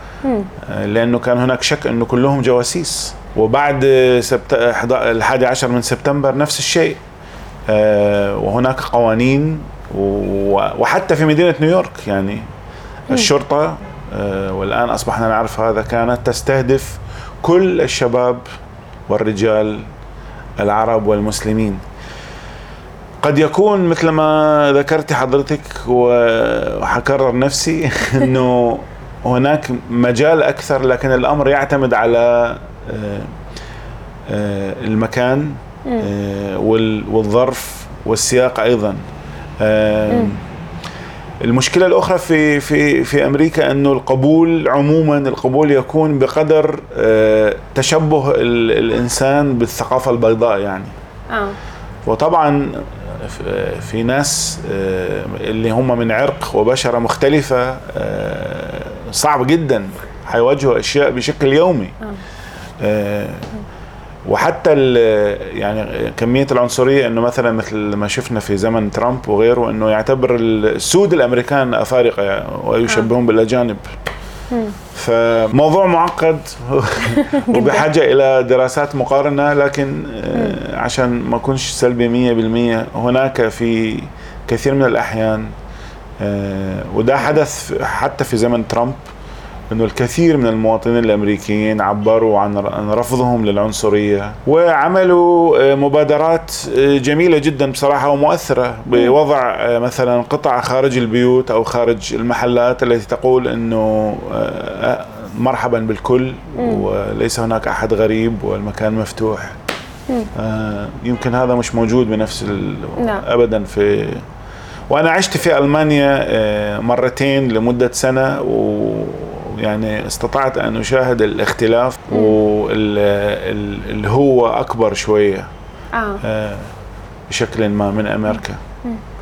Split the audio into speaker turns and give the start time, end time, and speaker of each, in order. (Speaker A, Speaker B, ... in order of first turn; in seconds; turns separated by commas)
Speaker A: 0.2-0.5, Speaker B: 0.6-7.0, Speaker B: 7.7-12.5, Speaker B: 13.1-18.4, Speaker B: 19.1-19.9, Speaker B: 20.6-21.8, Speaker B: 23.2-33.3, Speaker B: 34.3-39.0, Speaker B: 39.6-40.4, Speaker B: 41.4-50.9, Speaker A: 51.3-51.6, Speaker B: 52.0-62.0, Speaker B: 62.8-63.5, Speaker B: 64.3-73.8, Speaker B: 74.9-85.5, Speaker A: 77.1-77.9, Speaker B: 86.2-89.0, Speaker B: 89.7-109.6, Speaker A: 106.6-106.8, Speaker B: 110.4-114.2, Speaker A: 113.0-113.2, Speaker B: 114.9-125.5, Speaker A: 125.9-126.2, Speaker B: 126.2-126.7, Speaker B: 127.3-128.6